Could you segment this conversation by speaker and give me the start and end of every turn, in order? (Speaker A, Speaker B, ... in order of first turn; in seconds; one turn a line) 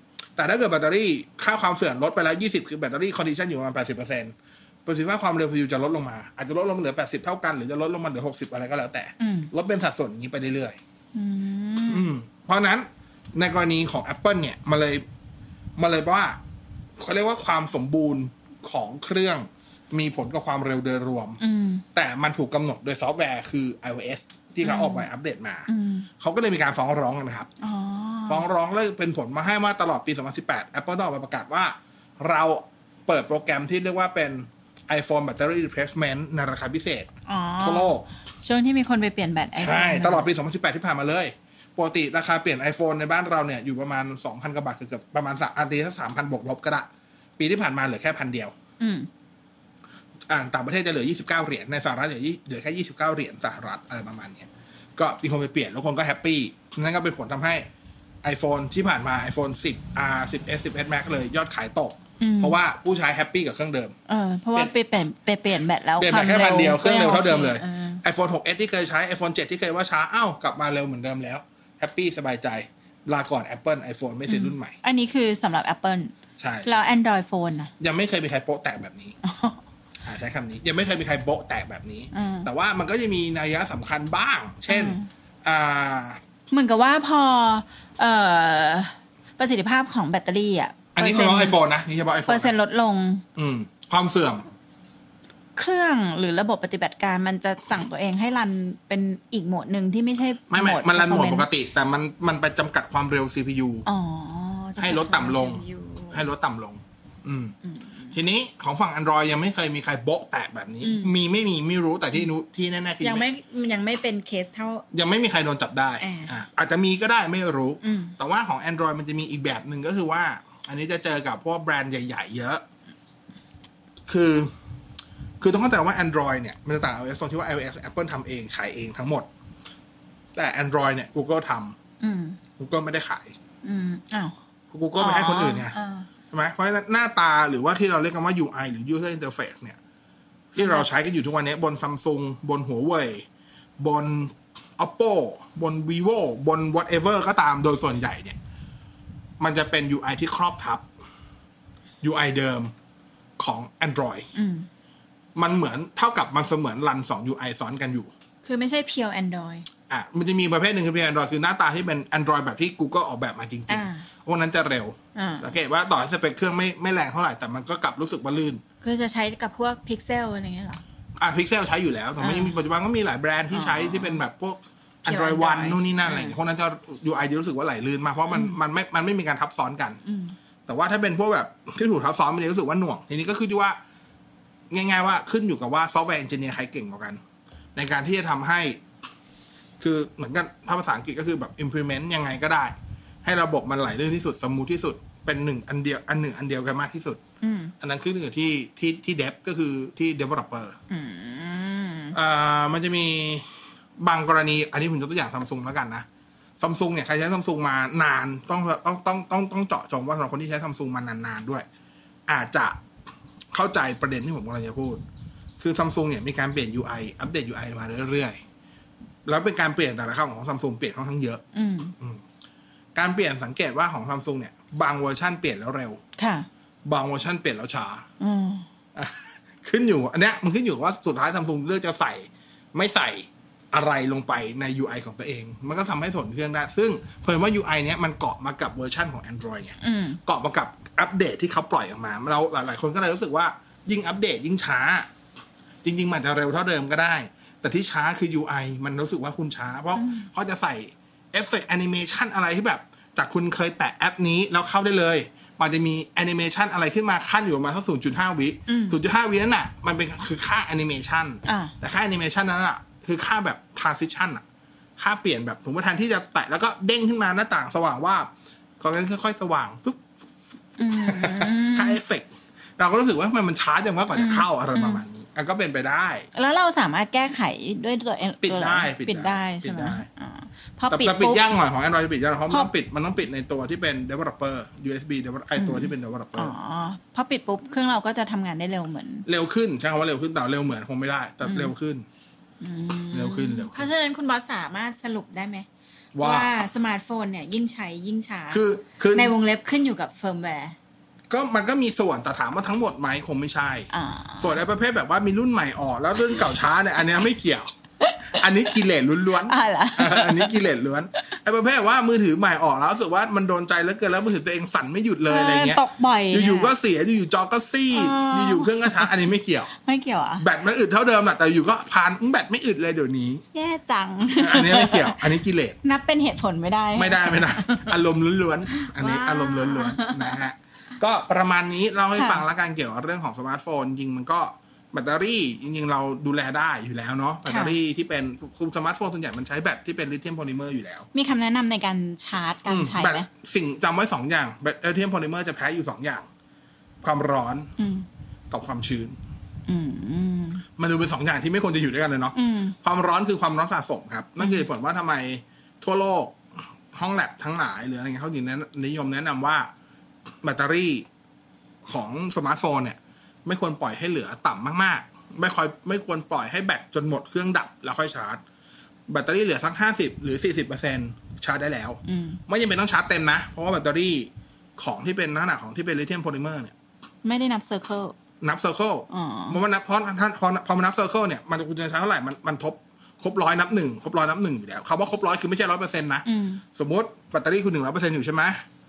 Speaker A: 0.4-10.8
Speaker B: 9.2-9.5
Speaker B: 11.2-12.1
Speaker A: 11.9-15.1
Speaker A: 15.8-16.4
Speaker A: 17.0-21.4
Speaker B: 21.4-21.9
Speaker A: 21.9-25.7
Speaker B: 24.6-25.1
Speaker B: 25.7-26.1
Speaker A: 26.2-27.5
Speaker B: 27.6-28.5
Speaker A: 28.3-37.1
Speaker B: 37.3-40.3
Speaker A: 37.6-38.1
Speaker A: 39.5-48.5
Speaker B: 48.8-49.1
Speaker A: 50.3-57.6
Speaker A: 58.2-63.9
Speaker B: 62.2-62.6
Speaker B: 64.1-68.0
Speaker A: 66.0-74.8
Speaker B: 74.3-76.1
Speaker A: 76.4-76.8
Speaker B: 76.6-77.7
Speaker A: 77.8-79.2
Speaker B: 79.2-79.6
Speaker A: 80.0-86.2
Speaker B: 82.1-82.5
Speaker B: 84.7-85.1
Speaker B: 86.5-91.6
Speaker A: 91.0-92.5
Speaker B: 92.3-93.2
Speaker A: 93.4-94.5
Speaker B: 95.6-101.5
Speaker A: 100.5-103.9
Speaker B: 103.9-106.2
Speaker A: 104.8-107.5
Speaker B: 107.6-108.2
Speaker A: 108.1-113.3
Speaker B: 110.8-111.1
Speaker B: 113.0-114.8
Speaker A: 114.9-122.6
Speaker B: 116.0-116.3
Speaker B: 117.8-118.2
Speaker A: 124.1-124.5
Speaker A: 125.4-129.3
Speaker A: 130.3-131.8
Speaker B: 132.0-132.4
Speaker A: 132.6-133.4
Speaker B: 133.6-134.3
Speaker A: 134.7-135.8
Speaker B: 135.0-136.1
Speaker A: 136.3-139.8
Speaker A: 140.5-143.3
Speaker B: 140.6-140.9
Speaker A: 143.8-148.4
Speaker A: 149.4-150.9
Speaker A: 152.0-152.7
Speaker A: 153.4-154.3
Speaker B: 154.3-154.7
Speaker A: 155.4-158.1
Speaker B: 158.4-159.7
Speaker A: 159.9-168.6
Speaker B: 163.7-164.1
Speaker B: 165.2-165.5
Speaker B: 168.8-170.8
Speaker A: 171.2-180.0
Speaker B: 172.2-172.6
Speaker B: 173.5-174.2
Speaker B: 175.1-176.4
Speaker B: 178.3-178.6
Speaker B: 180.1-180.4
Speaker A: 180.7-183.8
Speaker A: 184.7-187.2
Speaker A: 187.8-188.8
Speaker A: 189.8-197.2
Speaker B: 197.4-197.7
Speaker A: 197.8-200.8
Speaker B: 200.9-202.2
Speaker A: 202.1-206.1
Speaker A: 206.6-211.7
Speaker A: 212.3-212.8
Speaker A: 213.5-215.0
Speaker A: 215.6-218.4
Speaker A: 219.3-221.4
Speaker B: 221.5-221.9
Speaker A: 222.0-222.2
Speaker A: 222.9-226.0
Speaker B: 226.2-226.5
Speaker A: 226.9-228.1
Speaker B: 228.2-228.7
Speaker A: 228.9-245.1
Speaker B: 239.8-240.2
Speaker A: 245.8-264.4
Speaker B: 249.9-250.3
Speaker B: 258.7-259.0
Speaker B: 261.4-261.7
Speaker A: 265.0-270.1
Speaker B: 270.8-272.0
Speaker A: 270.9-276.3
Speaker B: 274.1-275.0
Speaker B: 276.3-281.4
Speaker A: 278.4-280.1
Speaker A: 280.9-286.5
Speaker B: 285.6-289.3
Speaker A: 289.3-292.1
Speaker B: 291.4-291.7
Speaker B: 292.6-295.7
Speaker A: 293.1-293.9
Speaker A: 296.1-296.5
Speaker B: 296.2-300.8
Speaker A: 298.5-299.3
Speaker A: 301.3-307.7
Speaker B: 303.9-304.6
Speaker B: 308.0-308.4
Speaker A: 308.3-319.7
Speaker B: 309.5-310.6
Speaker B: 315.3-316.7
Speaker B: 317.9-319.1
Speaker B: 319.8-320.4
Speaker A: 320.4-323.4
Speaker B: 323.5-325.2
Speaker A: 324.4-325.8
Speaker B: 325.8-327.9
Speaker A: 326.9-341.1
Speaker B: 328.8-330.4
Speaker B: 332.2-332.4
Speaker B: 337.5-337.8
Speaker B: 341.1-343.3
Speaker A: 342.7-346.3
Speaker A: 347.0-347.7
Speaker B: 347.8-348.1
Speaker A: 348.5-349.2
Speaker B: 349.7-350.6
Speaker A: 350.8-356.4
Speaker B: 352.4-352.8
Speaker B: 354.4-354.6
Speaker A: 356.9-359.7
Speaker A: 360.4-361.1
Speaker A: 361.9-368.4
Speaker A: 369.1-376.7
Speaker B: 372.1-372.4
Speaker B: 377.2-378.1
Speaker A: 378.4-388.6
Speaker B: 379.1-379.6
Speaker B: 386.2-386.6